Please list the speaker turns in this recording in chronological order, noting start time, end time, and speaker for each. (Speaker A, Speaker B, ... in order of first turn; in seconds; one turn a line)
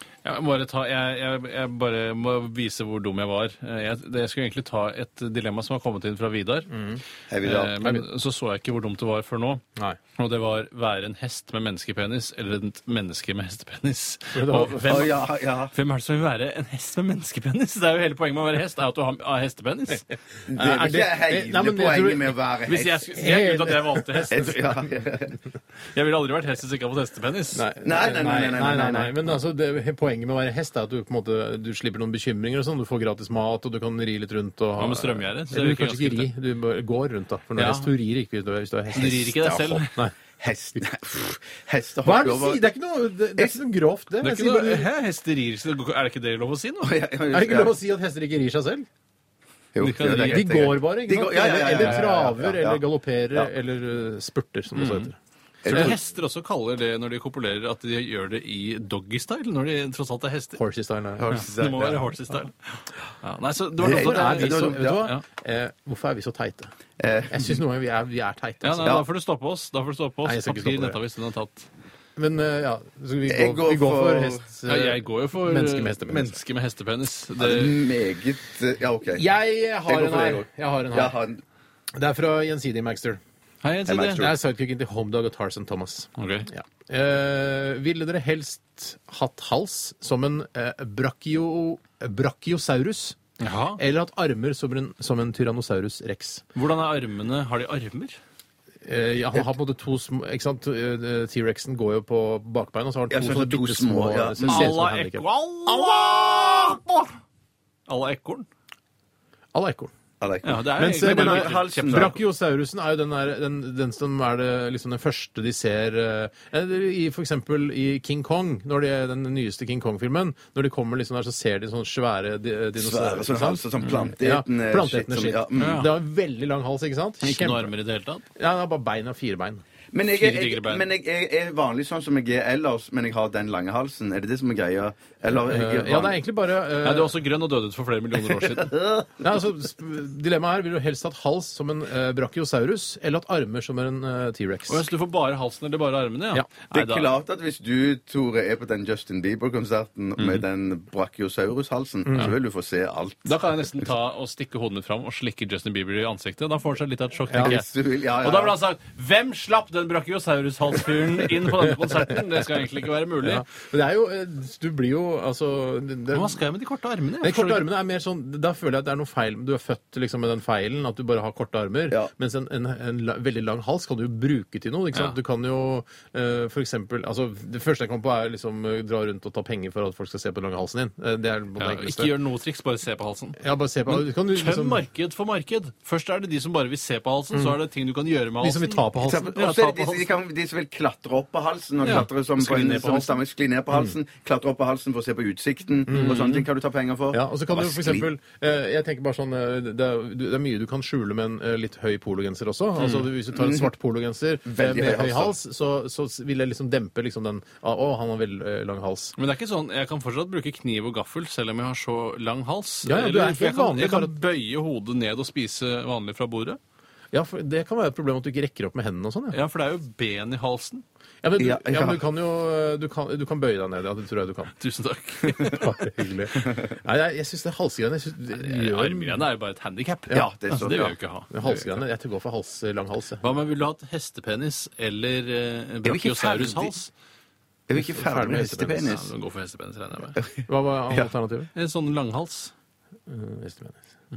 Speaker A: 0.2-6.7
Speaker B: 6.7-7.0
Speaker C: 7.3-7.8
Speaker A: 7.4-9.6
Speaker A: 10.2-20.1
Speaker B: 14.3-15.1
Speaker C: 14.8-15.7
Speaker C: 20.5-23.1
Speaker B: 20.5-22.3
Speaker A: 22.7-24.6
Speaker B: 23.1-24.4
Speaker C: 24.3-25.4
Speaker A: 25.9-27.6
Speaker B: 27.5-39.3
Speaker C: 27.8-29.1
Speaker A: 34.8-36.3
Speaker A: 37.5-37.9
Speaker A: 38.9-39.9
Speaker C: 39.0-42.6
Speaker B: 42.0-44.9
Speaker A: 44.2-46.9
Speaker C: 46.8-47.7
Speaker B: 47.3-48.9
Speaker C: 49.7-52.8
Speaker A: 49.8-50.5
Speaker B: 50.2-55.1
Speaker A: 51.8-52.0
Speaker A: 54.8-55.1
Speaker C: 55.6-56.0
Speaker A: 55.6-60.6
Speaker B: 55.7-56.0
Speaker B: 60.5-61.4
Speaker C: 61.2-62.1
Speaker A: 61.3-65.2
Speaker C: 63.8-65.1
Speaker B: 63.8-66.7
Speaker C: 67.0-67.6
Speaker B: 67.3-69.0
Speaker A: 68.6-71.7
Speaker B: 70.2-71.0
Speaker B: 72.2-76.4
Speaker C: 73.3-74.4
Speaker A: 74.7-77.8
Speaker C: 77.4-79.2
Speaker B: 79.1-81.2
Speaker C: 79.9-81.4
Speaker B: 81.9-83.2
Speaker A: 83.6-84.3
Speaker C: 83.9-84.3
Speaker B: 84.2-93.2
Speaker A: 86.2-86.5
Speaker A: 93.4-93.8
Speaker B: 93.8-96.4
Speaker A: 96.5-98.2
Speaker B: 98.8-105.2
Speaker C: 103.1-104.7
Speaker A: 104.4-107.1
Speaker C: 105.7-106.7
Speaker A: 107.9-108.5
Speaker B: 109.5-109.9
Speaker C: 110.2-112.1
Speaker A: 110.4-112.2
Speaker B: 110.7-127.7
Speaker C: 122.8-125.9
Speaker A: 125.6-125.9
Speaker A: 127.2-128.2
Speaker B: 128.3-129.6
Speaker C: 129.9-136.2
Speaker A: 130.1-130.8
Speaker B: 135.3-137.1
Speaker A: 136.8-138.8
Speaker C: 138.6-139.1
Speaker B: 139.2-144.9
Speaker A: 144.7-147.1
Speaker C: 146.7-153.4
Speaker A: 150.2-150.4
Speaker B: 152.1-152.3
Speaker A: 153.2-163.4
Speaker B: 157.3-157.6
Speaker C: 157.4-158.6
Speaker B: 163.2-166.4
Speaker A: 166.1-167.7
Speaker B: 167.2-182.1
Speaker A: 181.6-190.2
Speaker B: 183.4-184.8
Speaker B: 188.4-189.3
Speaker C: 189.0-198.1
Speaker A: 191.8-193.2
Speaker B: 195.9-196.4
Speaker A: 195.9-196.3
Speaker B: 197.1-209.1
Speaker A: 202.8-203.1
Speaker C: 203.3-203.7
Speaker C: 204.4-205.3
Speaker A: 209.2-216.6
Speaker B: 212.8-214.2
Speaker B: 217.1-219.4
Speaker A: 219.3-220.8
Speaker B: 221.2-224.5
Speaker C: 221.4-222.0
Speaker A: 224.6-225.7
Speaker B: 225.3-229.2
Speaker A: 228.3-231.8
Speaker C: 230.1-230.9
Speaker B: 231.3-233.3
Speaker A: 233.2-236.9
Speaker C: 235.8-236.7
Speaker C: 237.7-239.1
Speaker B: 237.7-238.9
Speaker A: 238.7-240.2
Speaker C: 240.2-241.1
Speaker B: 240.5-241.5
Speaker A: 241.5-242.5
Speaker B: 243.1-243.9